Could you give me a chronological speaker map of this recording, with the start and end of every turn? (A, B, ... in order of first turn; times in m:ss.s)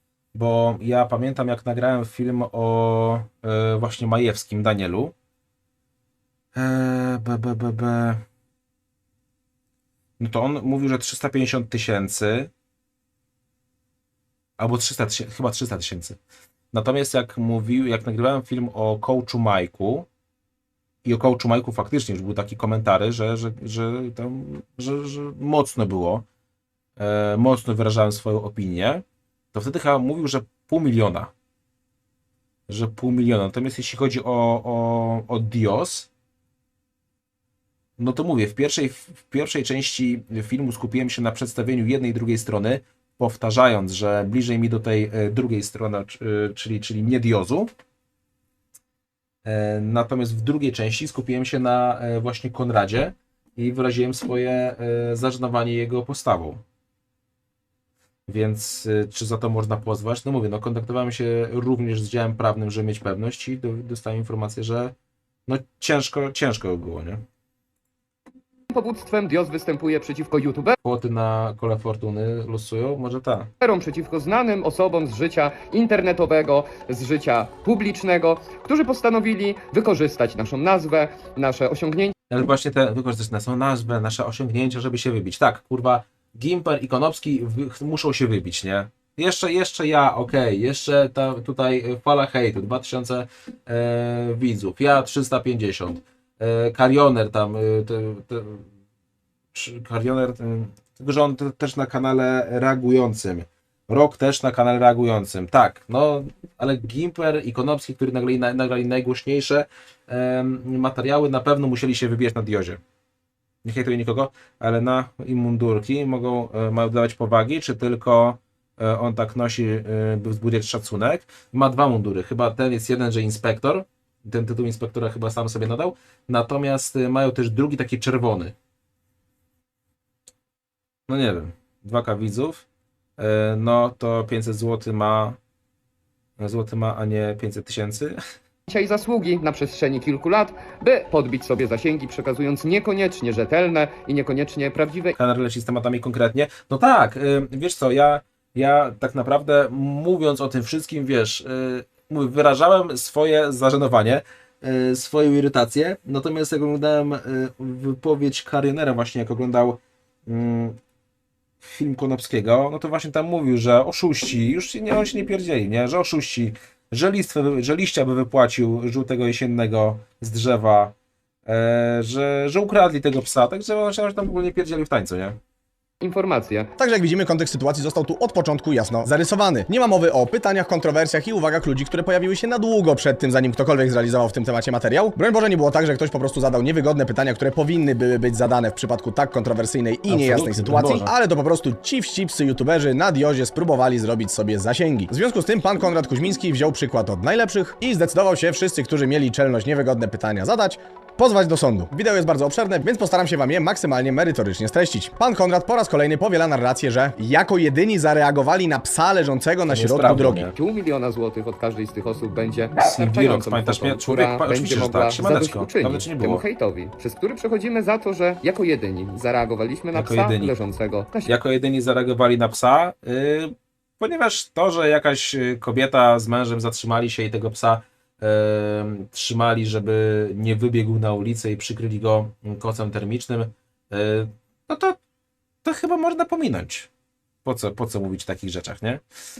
0:00.3-0:05.1 A
0:06.5-0:08.2 A
0:10.2-0:12.5 A
0:14.6-0:16.2 A
0:16.7-0:20.1 A
0:21.0-0:26.2 A
0:27.0-0:31.3 A
0:32.7-0:36.1 A
0:38.0-0:47.7 A
0:49.4-0:56.6 A
0:58.3-1:04.9 A
1:05.5-1:07.2 A
1:08.7-1:10.7 B
1:10.8-1:13.5 A
1:13.6-1:22.1 B
1:22.3-1:38.7 A
1:39.5-1:52.8 A
1:53.6-2:08.5 A
2:11.1-2:12.6 A
2:13.2-2:15.4 A
2:16.4-2:18.2 A
2:18.7-2:25.1 B
2:25.2-2:40.8 A
2:41.6-2:50.9 A
2:51.4-2:55.4 A
2:56.0-2:56.7 B
2:56.8-3:30.5 C
3:10.1-3:11.1 A
3:29.7-3:30.5 A
3:30.6-3:41.3 B
3:32.8-3:36.4 A
3:39.9-3:40.5 A
3:41.2-3:55.0 A
3:55.6-3:56.9 A
3:57.4-3:59.0 A